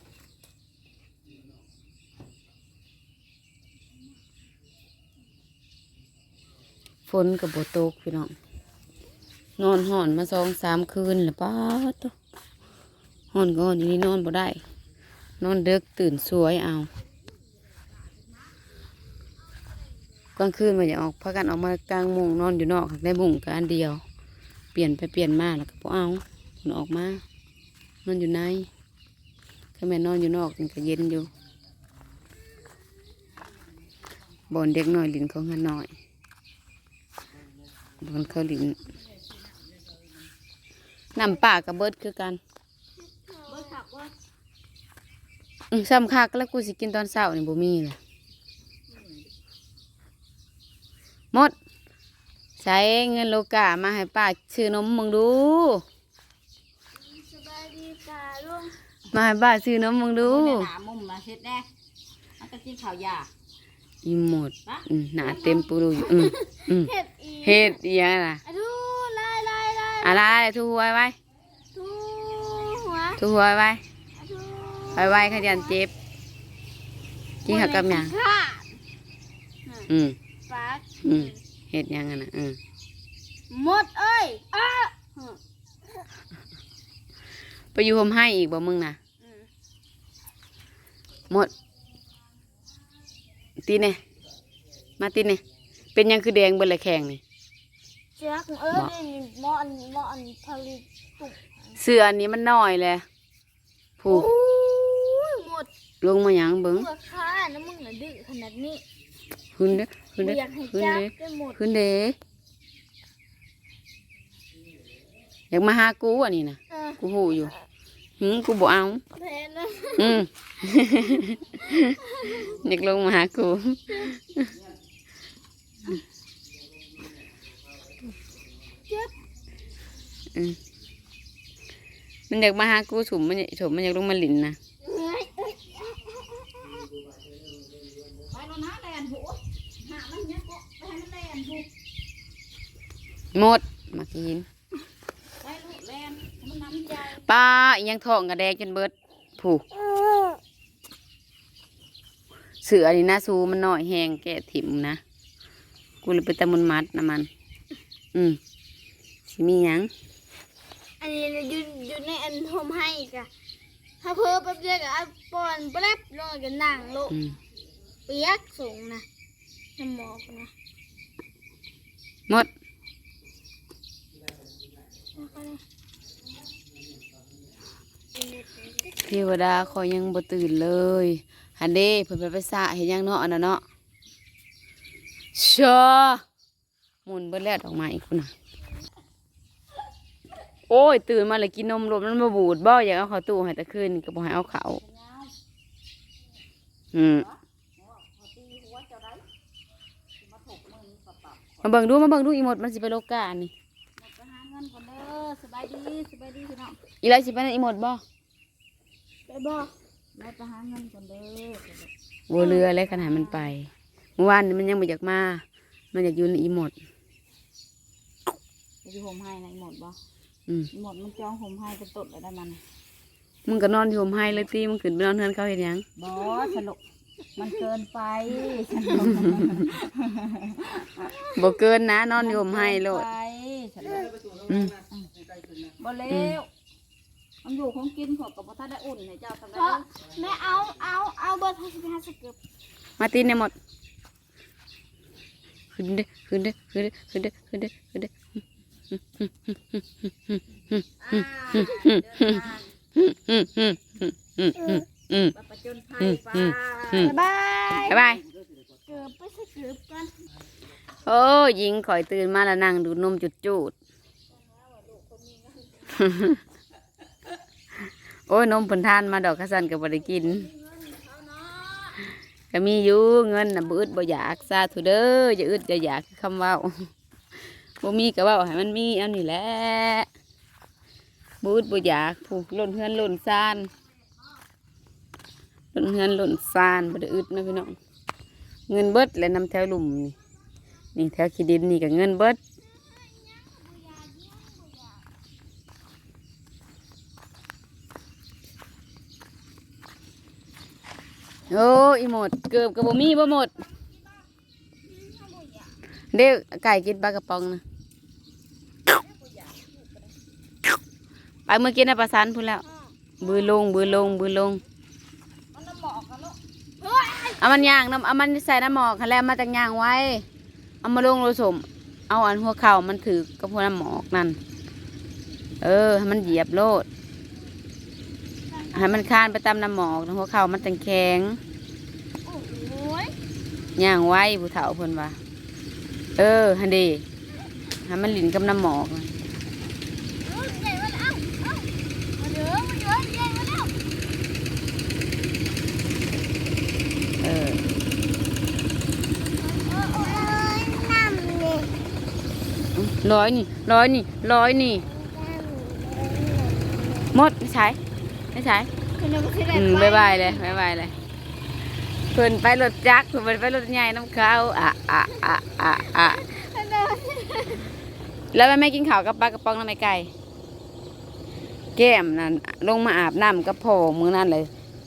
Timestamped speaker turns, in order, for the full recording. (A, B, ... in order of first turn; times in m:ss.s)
0:07.1-0:08.3 A
0:09.6-0:12.1 A
0:13.3-0:14.6 A
0:15.4-0:16.9 A
0:20.4-0:24.0 A
0:24.7-0:27.2 A
0:28.0-0:28.7 A
0:29.8-0:31.3 A
0:34.5-0:35.9 A
0:38.0-0:38.8 A
0:41.1-0:42.4 A
0:43.2-0:43.7 B
0:43.5-0:44.1 C
0:45.7-0:48.0 A
0:52.6-0:55.8 A
0:57.0-0:58.8 B
0:59.1-1:00.7 A
1:00.2-1:01.7 C
1:02.4-1:03.3 C
1:04.0-1:06.9 A
1:04.7-1:06.2 C
1:06.1-1:07.8 B
1:07.4-1:08.4 A
1:08.4-1:10.3 B
1:10.0-1:11.2 A
1:11.7-1:13.2 B
1:13.2-1:13.8 A
1:14.2-1:15.8 B
1:14.9-1:15.9 A
1:17.4-1:18.2 A
1:17.5-1:18.8 B
1:19.9-1:20.2 A
1:20.5-1:21.4 B
1:21.0-1:22.6 A
1:23.5-1:25.1 B
1:25.1-1:25.4 C
1:27.7-1:29.0 A
1:33.6-1:34.0 A
1:35.0-1:35.4 A
1:35.9-1:37.2 A
1:38.2-1:41.4 B
1:41.8-1:43.0 A
1:44.0-1:44.3 A
1:44.1-1:45.7 B
1:46.0-1:46.9 A
1:46.7-1:48.8 B
1:49.5-1:52.2 A
1:50.2-1:51.6 B
1:55.5-1:57.5 A
1:56.7-1:57.0 B
1:58.2-1:59.0 A
1:59.2-2:00.2 B
2:00.0-2:04.5 A
2:01.7-2:02.5 B
2:12.3-2:14.6 A
2:14.8-2:16.8 B
2:18.1-2:21.7 C
2:23.3-2:24.5 A
2:25.4-2:27.2 C
2:27.2-2:29.6 A
2:32.6-2:35.0 A
2:36.0-2:37.3 A
2:38.1-2:38.4 A
2:39.2-2:39.9 A
2:41.0-2:43.3 B
2:44.0-2:47.2 B
2:47.1-2:47.4 A
2:48.1-2:49.0 B
2:49.8-2:50.5 B
2:55.2-2:55.6 B
2:58.1-2:59.0 B
2:59.0-3:03.6 A
3:05.3-3:06.2 A
3:07.0-3:08.3 A
3:10.7-3:14.8 A
3:14.6-3:15.3 C
3:16.9-3:17.2 A
3:17.0-3:19.2 C
3:20.2-3:21.6 C
3:21.6-3:23.5 A
3:24.0-3:26.8 C
3:27.0-3:28.0 A
3:29.2-3:29.7 B
3:30.2-3:33.5 C
3:32.3-3:36.7 A
3:38.8-3:40.0 C
3:40.7-3:42.6 C
3:43.4-3:45.8 A
3:46.0-3:46.8 C
3:47.4-3:51.1 C
3:51.3-3:53.1 A
3:52.2-3:54.1 C
3:54.5-3:54.8 A
3:55.6-3:56.5 C
3:56.1-3:56.3 A
3:57.4-4:00.1 C
3:59.5-4:02.4 B
4:03.0-4:03.5 A
4:05.7-4:08.1 A
4:08.9-4:12.4 A
4:11.0-4:12.7 C
4:12.9-4:15.3 A
4:15.3-4:18.2 C
4:16.0-4:17.2 A
4:17.9-4:18.2 A
4:18.9-4:20.0 C
4:21.0-4:23.7 A
4:24.6-4:25.9 C
4:25.9-4:26.4 A
4:28.3-4:30.5 A
4:30.8-4:32.0 C
4:32.5-4:36.7 A
4:37.8-4:40.1 A
4:41.4-4:43.7 A
4:45.7-4:47.8 A
4:48.7-4:50.2 A
4:50.9-4:52.4 A
4:52.7-4:55.0 B
5:01.5-5:03.5 A
5:05.0-5:05.7 C
5:06.1-5:07.6 A
5:08.9-5:10.1 C
5:11.5-5:12.6 A
5:12.8-5:13.6 B
5:13.2-5:14.6 A
5:15.5-5:16.4 C
5:16.8-5:17.6 B
5:17.4-5:20.2 A
5:20.8-5:24.4 A
5:25.6-5:26.9 A
5:28.7-5:31.4 A
5:32.2-5:33.2 B
5:33.8-5:35.2 A
5:36.2-5:37.0 A
5:37.8-5:39.1 A
5:40.2-5:43.8 B
5:47.2-5:47.6 A
5:49.5-5:51.7 B
5:52.7-5:54.9 A
5:54.9-5:57.1 B
5:57.1-5:57.8 A
5:58.3-5:58.7 A
5:59.0-6:00.6 B
5:59.5-6:00.9 A
6:02.1-6:06.2 A
6:05.8-6:07.7 B
6:08.3-6:10.1 A
6:11.8-6:14.5 A